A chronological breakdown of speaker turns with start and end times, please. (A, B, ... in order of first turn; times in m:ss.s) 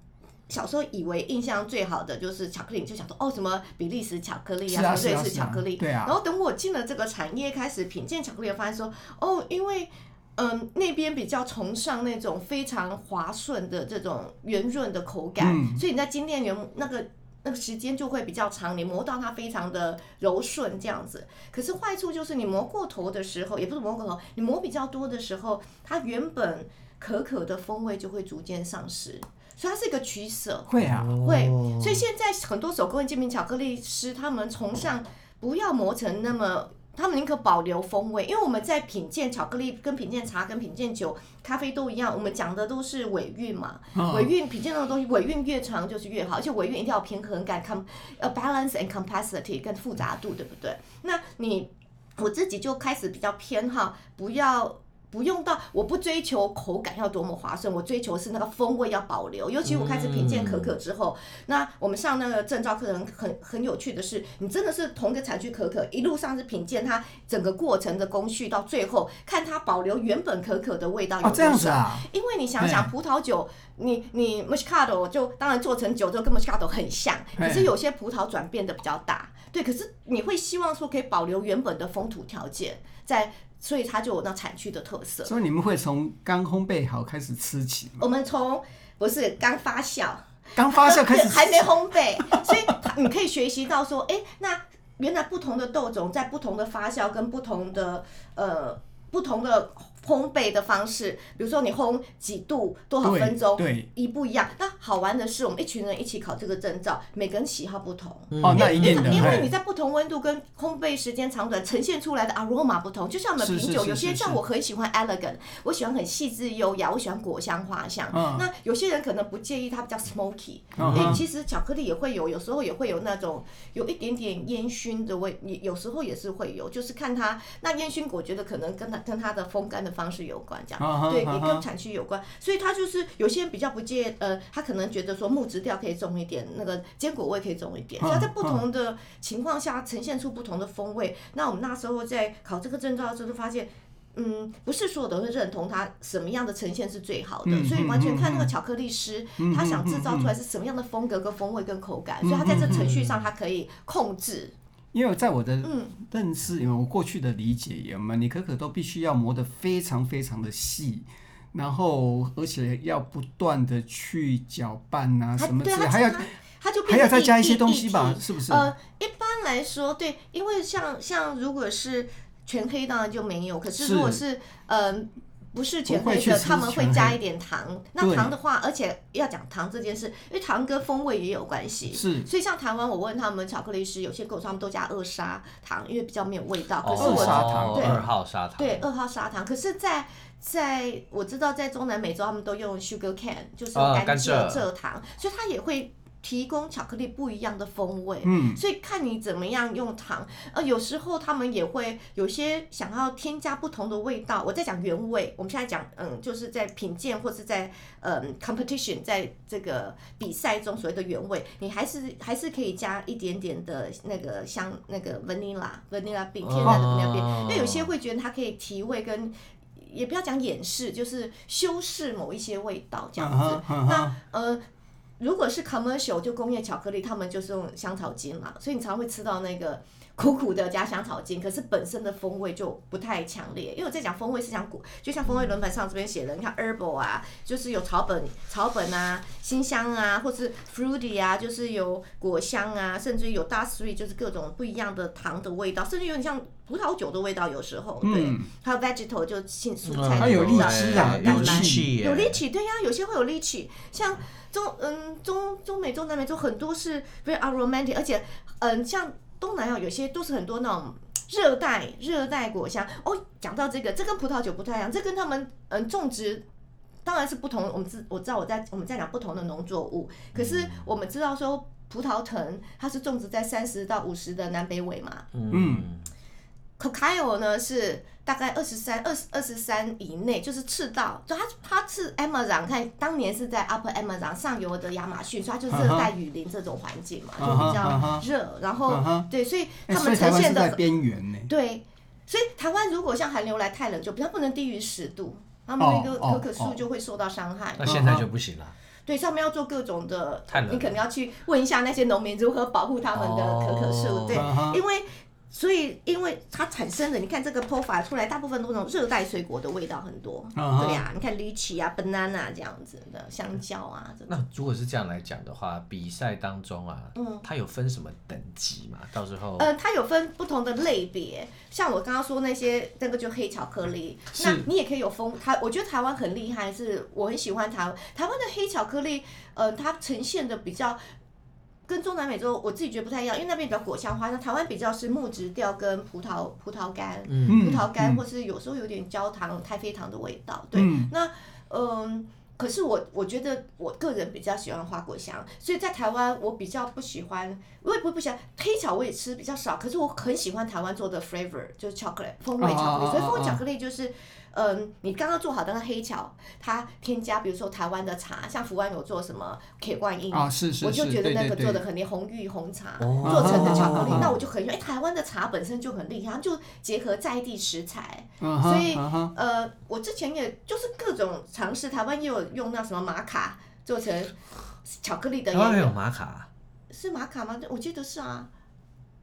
0:00.5-1:25.3 A
0:04.7-0:06.2 B
0:15.4-0:15.8 B
0:30.7-0:31.2 B
0:30.8-0:32.0 C
0:44.0-0:44.3 B
0:59.6-1:00.8 C
1:11.2-1:12.1 B
1:12.6-1:12.9 B
1:17.4-1:17.7 B
1:25.2-1:28.0 B
1:28.0-2:34.5 A
1:30.6-1:31.7 B
1:32.3-1:32.6 B
1:43.0-1:43.9 B
1:48.3-1:49.4 C
1:48.4-1:49.5 B
1:53.4-1:54.4 B
1:58.1-1:58.5 B
2:00.8-2:01.2 B
2:10.8-2:11.6 B
2:18.0-2:18.6 B
2:27.4-2:28.5 B
2:29.4-2:30.3 B
2:32.2-2:32.9 B
2:32.5-2:33.3 C
2:34.9-2:46.3 B
2:35.6-2:36.0 A
2:45.4-3:08.1 A
2:46.9-2:48.7 B
2:53.8-2:54.2 B
2:55.9-2:57.2 B
2:58.0-2:58.3 B
3:01.9-3:02.3 B
3:06.8-3:08.8 C
3:07.0-3:08.1 B
3:08.6-3:44.6 A
3:13.8-3:14.6 C
3:18.2-3:18.6 B
3:36.4-3:37.9 C
3:43.2-3:44.1 B
3:45.2-4:26.4 A
4:08.0-4:08.5 B
4:09.8-4:12.4 C
4:10.2-4:11.9 B
4:27.0-4:35.3 A
4:30.4-4:30.8 C
4:35.3-4:36.1 C
4:35.5-4:35.9 B
4:36.8-4:50.8 A
4:45.7-4:46.1 B
4:47.4-4:48.3 B
4:48.9-4:49.3 B
4:49.9-4:51.5 B
4:51.5-4:58.0 A
4:55.8-4:56.8 B
4:57.8-4:58.8 C
4:57.8-4:58.2 B
4:59.1-5:14.3 A
5:00.5-5:01.0 C
5:03.1-5:04.5 C
5:04.3-5:04.8 B
5:10.6-5:11.1 B
5:14.3-5:19.7 C
5:17.2-5:17.5 A
5:19.6-5:31.0 A
5:24.4-5:24.6 B
5:31.9-6:14.3 A
5:37.3-5:37.7 C
5:37.5-5:38.2 B
5:40.7-5:41.1 B
5:52.6-5:53.6 B
6:00.3-6:01.8 B
6:03.0-6:04.4 C
6:03.2-6:04.4 B
6:08.4-6:09.3 B
6:14.8-6:16.0 A
6:15.5-6:16.5 C
6:16.9-6:18.5 A